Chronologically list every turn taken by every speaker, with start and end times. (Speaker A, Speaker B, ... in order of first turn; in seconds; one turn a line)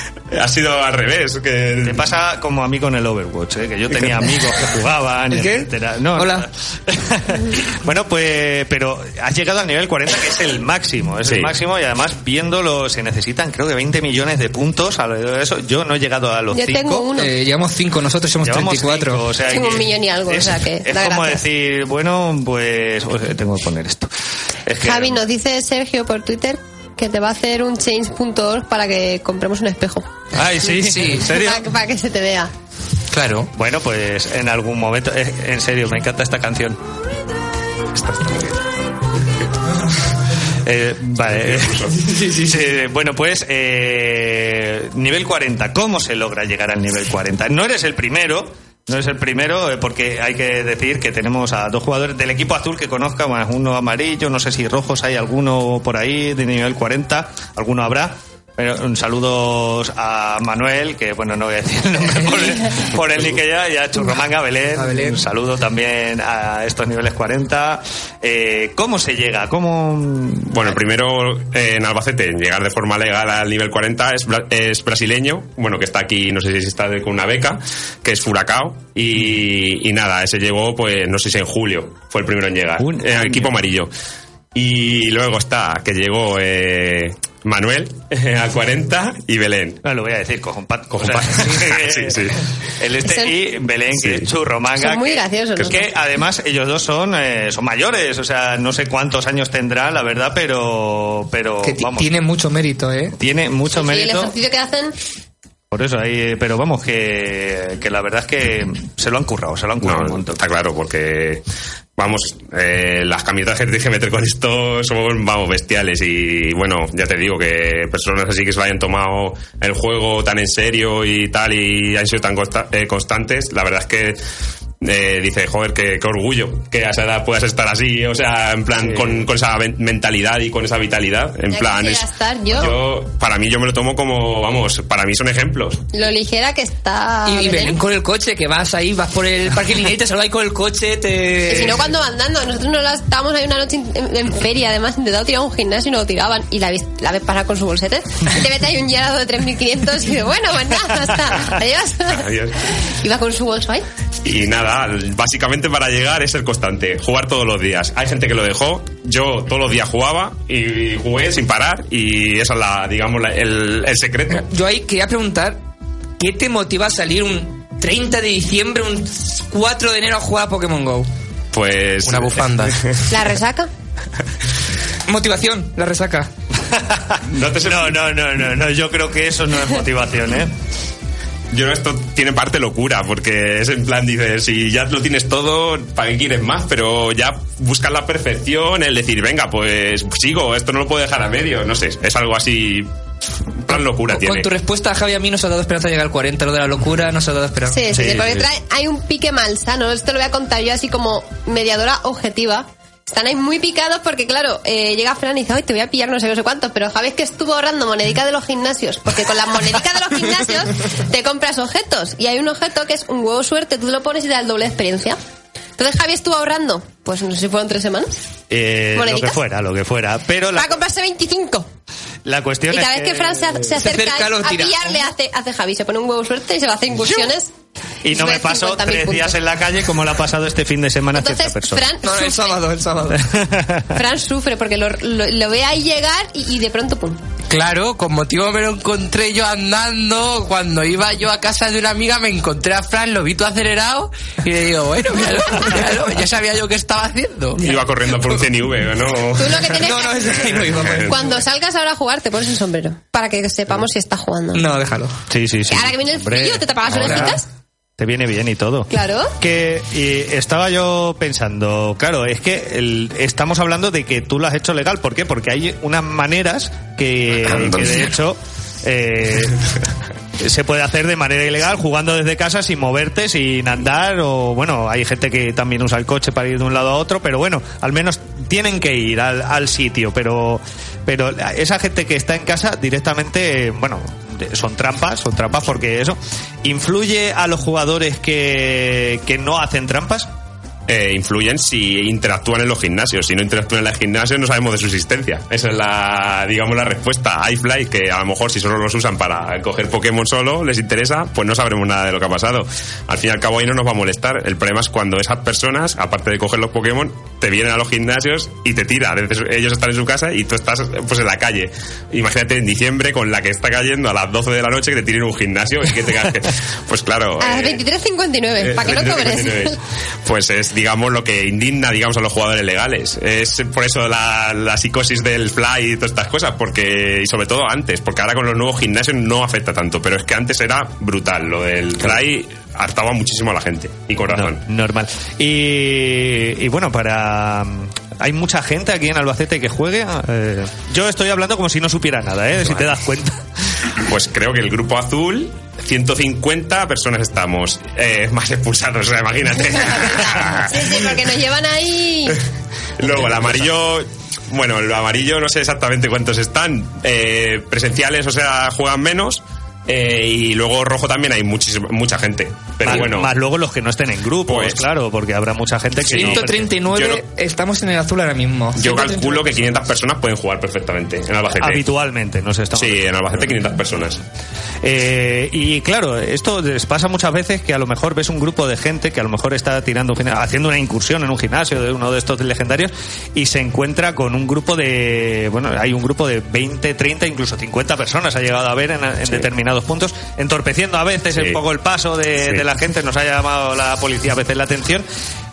Speaker A: 0.3-2.1
Speaker B: 1.8-17.0
Speaker A: 3.9-4.2
Speaker C: 5.3-6.5
Speaker A: 11.2-11.5
Speaker D: 16.5-17.3
Speaker C: 17.1-19.2
Speaker B: 18.4-24.1
Speaker D: 19.5-21.4
Speaker B: 24.6-25.2
Speaker D: 24.8-30.1
Speaker B: 30.3-31.7
Speaker E: 30.7-31.3
Speaker D: 31.3-32.5
Speaker E: 33.1-33.5
Speaker B: 33.5-36.8
Speaker B: 38.0-38.5
Speaker B: 40.6-70.8
Speaker A: 41.2-42.0
Speaker C: 64.8-65.2
Speaker A: 70.5-83.9
Speaker B: 82.8-83.5
Speaker A: 84.5-89.8
Speaker B: 89.8-102.1
Speaker A: 91.0-92.4
Speaker D: 93.0-93.3
Speaker A: 93.9-94.3
Speaker D: 94.8-95.9
Speaker C: 101.6-103.2
Speaker B: 103.2-104.3
Speaker D: 103.7-104.9
Speaker B: 105.7-110.4
Speaker A: 109.8-111.4
Speaker A: 112.0-124.2
Speaker A: 124.8-135.8
Speaker B: 128.7-129.2
Speaker D: 131.5-132.8
Speaker D: 135.9-137.8
Speaker C: 137.2-141.9
Speaker D: 141.5-153.8
Speaker A: 152.1-152.6
Speaker A: 154.2-164.4
Speaker C: 164.3-165.6
Speaker C: 166.2-171.1
Speaker A: 171.5-173.1
Speaker E: 172.0-172.8
Speaker D: 173.1-173.7
Speaker C: 175.1-176.3
Speaker B: 176.7-180.5
Speaker A: 177.3-178.0
Speaker A: 181.5-192.9
Speaker A: 193.7-194.5
Speaker C: 193.7-197.8
Speaker D: 197.7-215.2
Speaker B: 197.9-198.3
Speaker D: 215.8-218.1
Speaker B: 218.5-220.8
Speaker D: 218.9-219.4
Speaker D: 220.6-221.7
Speaker B: 222.2-223.6
Speaker D: 222.7-227.5
Speaker C: 223.8-224.8
Speaker B: 228.0-231.8
Speaker D: 228.1-229.3
Speaker D: 231.1-232.6
Speaker C: 232.0-233.2
Speaker B: 233.2-233.9
Speaker D: 233.9-237.2
Speaker E: 237.5-247.6
Speaker A: 247.6-249.8
Speaker D: 249.4-250.5
Speaker C: 249.8-251.2
Speaker A: 250.6-251.4
Speaker D: 251.0-254.6
Speaker C: 254.5-255.2
Speaker B: 255.3-257.4
Speaker D: 255.7-257.4
Speaker C: 256.9-257.3
Speaker B: 258.0-269.6
Speaker D: 258.9-259.3
Speaker A: 267.5-268.0
Speaker B: 270.4-290.3
Speaker A: 290.9-317.8
Speaker D: 317.4-319.8
Speaker A: 318.6-334.6
Speaker B: 334.3-343.4
Speaker A: 344.0-350.7
Speaker D: 350.5-352.4
Speaker A: 353.0-363.3
Speaker B: 362.8-366.6
Speaker A: 364.5-364.9
Speaker A: 366.1-367.2
Speaker C: 366.1-369.6
Speaker A: 368.7-371.9
Speaker B: 371.5-373.7
Speaker A: 372.7-374.2
Speaker B: 374.8-395.0
Speaker A: 391.3-391.6
Speaker A: 392.4-392.6